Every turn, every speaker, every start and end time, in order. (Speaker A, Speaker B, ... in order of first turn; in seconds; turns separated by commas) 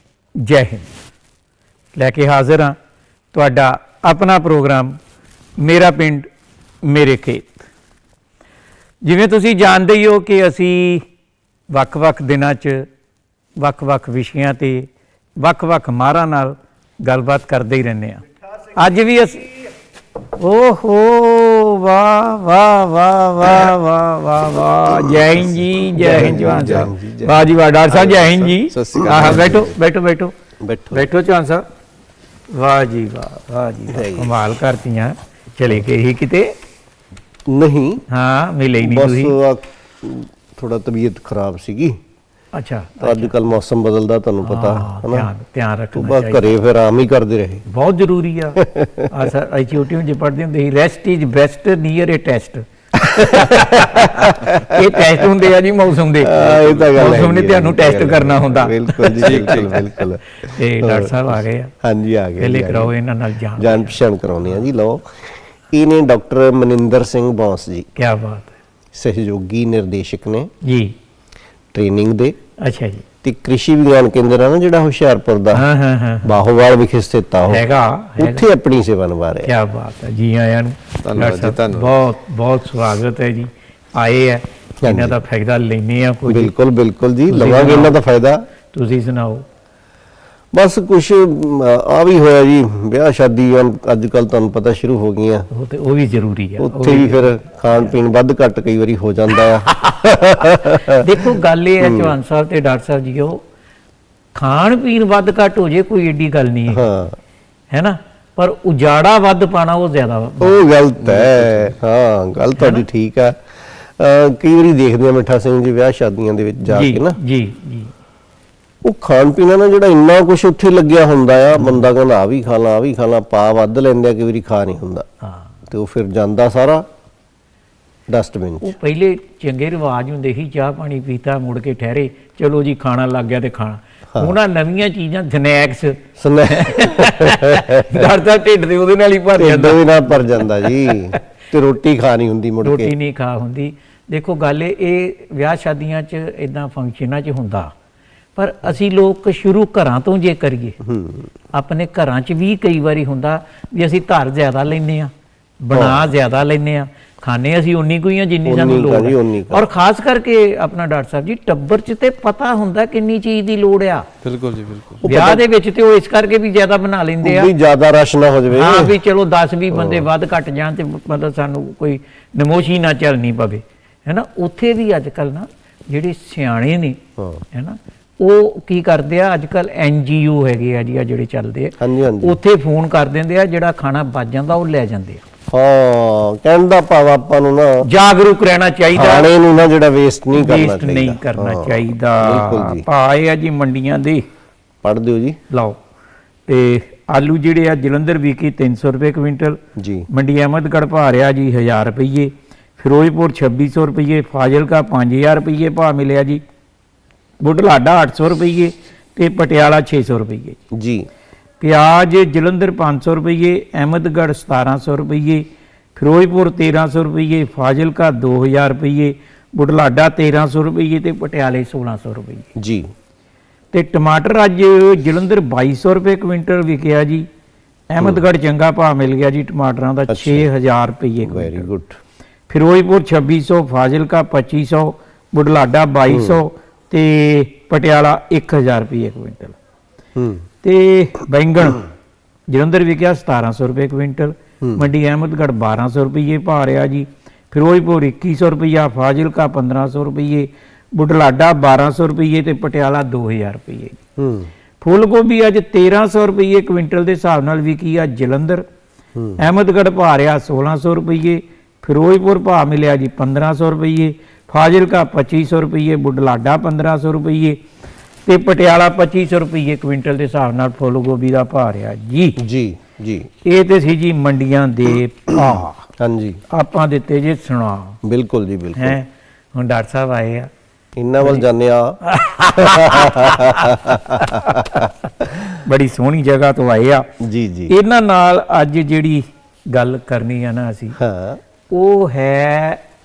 Speaker A: 0.4-0.9, Speaker A: 1.9-2.8, Speaker A: 3.3-5.0, Speaker A: 5.6-6.3, Speaker A: 6.8-7.7, Speaker A: 9.0-11.1, Speaker A: 11.7-12.9, Speaker A: 13.6-14.9, Speaker A: 15.4-18.2, Speaker A: 18.7-19.5, Speaker A: 20.4-30.3, Speaker B: 25.9-27.5, Speaker C: 26.0-26.9, Speaker C: 27.9-29.7, Speaker B: 30.6-31.1, Speaker A: 30.9-31.6, Speaker A: 32.5-36.6, Speaker B: 33.9-34.3, Speaker B: 37.5-38.0, Speaker A: 38.1-39.4, Speaker B: 38.8-42.0, Speaker A: 42.5-43.3, Speaker B: 43.0-45.3, Speaker A: 44.4-46.5, Speaker B: 45.9-47.6, Speaker A: 47.7-56.4, Speaker B: 48.6-49.1, Speaker B: 53.2-55.2, Speaker B: 56.2-61.2, Speaker C: 56.4-56.9, Speaker A: 57.0-59.8, Speaker C: 59.2-59.8, Speaker A: 60.4-61.7, Speaker B: 61.8-62.9, Speaker A: 62.4-64.0, Speaker B: 63.6-67.9, Speaker A: 68.0-68.5, Speaker B: 68.9-70.5, Speaker A: 70.6-71.0, Speaker B: 71.7-72.4, Speaker A: 72.6-73.0, Speaker B: 73.2-75.6, Speaker A: 75.5-76.3, Speaker B: 76.2-77.6, Speaker A: 77.5-78.5, Speaker B: 78.2-79.5, Speaker A: 79.5-86.5, Speaker C: 81.0-81.9, Speaker B: 84.8-85.2, Speaker B: 86.3-88.4, Speaker A: 87.3-88.0, Speaker A: 88.7-89.4, Speaker B: 90.5-95.5, Speaker A: 95.5-97.9, Speaker B: 96.6-101.2, Speaker A: 100.5-103.4, Speaker B: 101.8-102.1, Speaker A: 104.4-106.9, Speaker B: 106.7-107.2, Speaker A: 107.7-110.7, Speaker B: 110.4-117.2, Speaker C: 111.1-111.7, Speaker A: 112.6-112.8, Speaker A: 116.7-117.9, Speaker B: 118.8-125.1, Speaker B: 125.7-126.8, Speaker B: 128.1-128.8, Speaker A: 128.6-141.2, Speaker B: 136.2-138.1, Speaker B: 139.4-142.9, Speaker A: 142.6-147.7, Speaker A: 148.4-150.8, Speaker B: 150.8-151.3, Speaker A: 151.5-164.1, Speaker B: 155.7-156.1, Speaker B: 158.4-159.7, Speaker C: 164.2-165.0, Speaker B: 165.0-165.4, Speaker A: 165.0-167.5, Speaker B: 167.2-168.9, Speaker A: 168.5-177.0, Speaker B: 169.7-170.1, Speaker B: 177.2-177.4, Speaker A: 177.5-185.2, Speaker B: 181.8-182.4, Speaker B: 185.5-187.8, Speaker A: 187.8-189.3, Speaker B: 188.9-192.9, Speaker A: 190.3-194.3, Speaker B: 194.8-195.4, Speaker A: 195.5-195.8, Speaker A: 196.5-206.4, Speaker B: 199.8-200.1, Speaker A: 207.4-210.6, Speaker B: 210.7-211.1, Speaker A: 211.6-222.5, Speaker B: 222.6-222.9, Speaker A: 223.7-227.3, Speaker A: 227.9-231.7, Speaker B: 230.1-230.5, Speaker B: 231.2-232.0, Speaker A: 232.5-239.6, Speaker B: 236.1-236.4, Speaker B: 240.2-240.4, Speaker A: 240.6-241.8, Speaker A: 242.5-254.0, Speaker B: 254.2-254.5, Speaker A: 254.8-258.6, Speaker B: 259.1-259.4, Speaker A: 259.4-267.6, Speaker A: 268.3-272.4, Speaker B: 272.4-273.3, Speaker A: 273.4-275.9, Speaker B: 276.0-276.4, Speaker A: 276.5-278.0, Speaker B: 278.0-279.0, Speaker A: 278.8-280.5, Speaker B: 281.0-282.0, Speaker A: 282.0-284.9, Speaker B: 282.6-285.4, Speaker A: 285.6-287.1, Speaker B: 287.2-287.7, Speaker A: 287.7-291.0, Speaker B: 291.0-291.4, Speaker A: 291.7-292.8